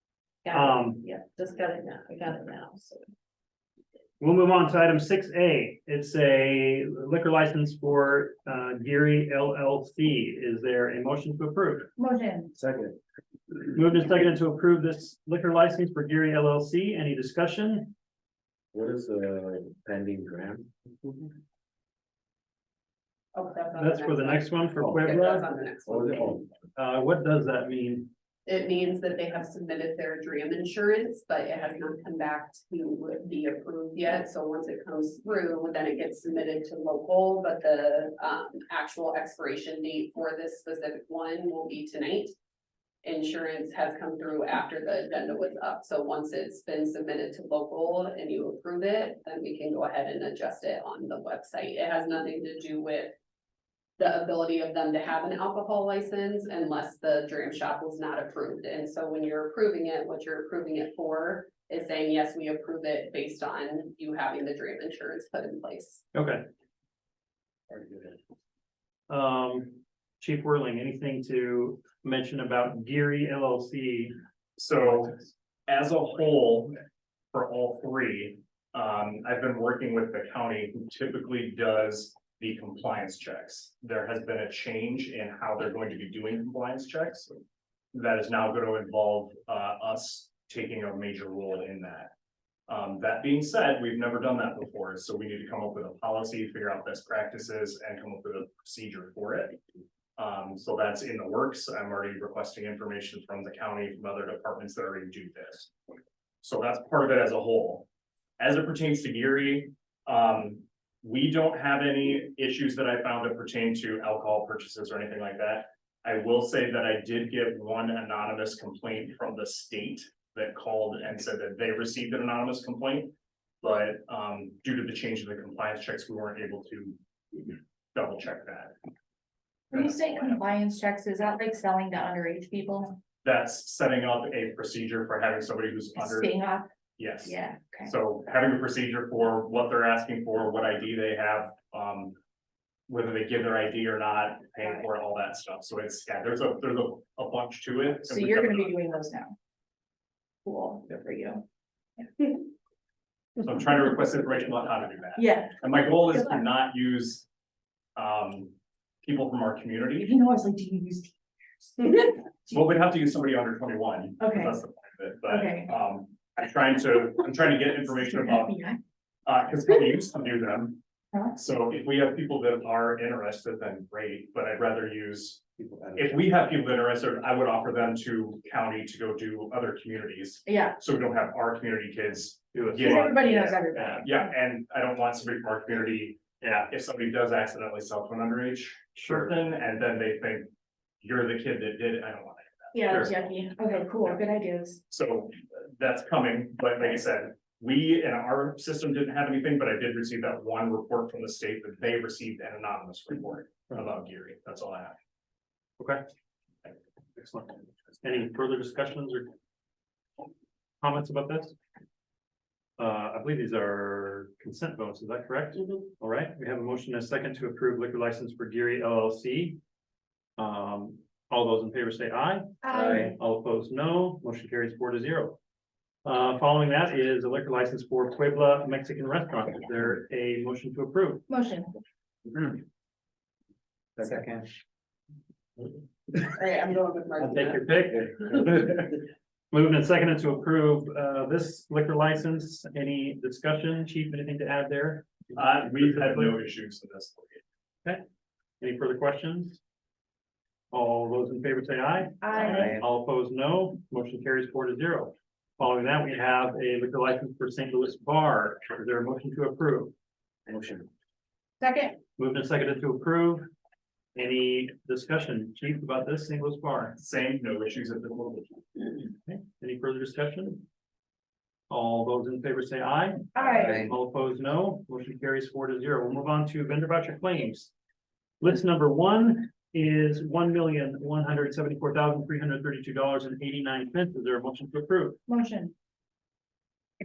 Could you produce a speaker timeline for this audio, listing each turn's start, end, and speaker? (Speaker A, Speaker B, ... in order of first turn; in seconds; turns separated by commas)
Speaker A: 0.5-3.0, Speaker B: 0.5-1.0, Speaker B: 4.2-11.9, Speaker C: 12.0-12.5, Speaker D: 12.6-13.0, Speaker B: 13.7-17.9, Speaker D: 18.7-21.3, Speaker A: 23.4-26.4, Speaker B: 23.8-25.5, Speaker D: 25.9-26.5, Speaker B: 26.8-28.1, Speaker A: 28.5-42.3, Speaker A: 43.0-53.1, Speaker A: 54.0-66.0, Speaker B: 66.1-66.4, Speaker B: 69.1-74.2, Speaker E: 74.6-76.8, Speaker E: 77.3-87.3, Speaker E: 87.9-92.1, Speaker E: 92.7-99.6, Speaker E: 100.2-105.7, Speaker E: 106.4-107.9, Speaker E: 108.4-128.8, Speaker E: 129.7-130.4, Speaker C: 129.7-133.0, Speaker E: 133.2-136.3, Speaker C: 135.9-136.7, Speaker E: 137.0-142.2, Speaker C: 137.2-137.9, Speaker E: 142.9-148.8, Speaker C: 148.1-149.3, Speaker C: 150.4-151.4, Speaker E: 153.4-157.3, Speaker C: 155.2-156.5, Speaker E: 158.0-160.1, Speaker C: 160.0-162.7, Speaker E: 162.5-168.6, Speaker C: 164.2-164.6, Speaker C: 165.3-165.7, Speaker C: 168.0-168.8, Speaker E: 169.3-170.8, Speaker E: 171.3-193.2, Speaker D: 175.6-176.3, Speaker C: 180.4-180.8, Speaker B: 182.5-184.1, Speaker C: 182.8-184.3, Speaker B: 186.4-186.7, Speaker B: 189.0-189.4, Speaker C: 192.7-194.8, Speaker E: 194.9-205.0, Speaker B: 205.8-206.1, Speaker B: 207.2-209.3, Speaker B: 210.8-211.6, Speaker B: 212.8-219.6, Speaker B: 220.4-225.4, Speaker C: 222.6-223.1, Speaker D: 222.7-223.1, Speaker B: 226.0-231.3, Speaker C: 231.3-231.7, Speaker D: 234.0-234.5, Speaker A: 236.2-237.6, Speaker B: 237.2-238.6, Speaker D: 238.1-238.9, Speaker B: 239.5-246.2, Speaker E: 245.3-247.4, Speaker B: 248.6-249.6, Speaker B: 250.7-259.9, Speaker C: 252.2-252.7, Speaker D: 252.4-252.8, Speaker D: 260.5-260.9, Speaker C: 261.6-262.0, Speaker B: 262.2-263.5, Speaker B: 264.1-267.0, Speaker E: 267.0-268.8, Speaker B: 269.3-270.7, Speaker B: 271.7-277.7, Speaker C: 273.4-273.8, Speaker D: 273.6-273.9, Speaker B: 278.4-285.2, Speaker C: 285.3-285.7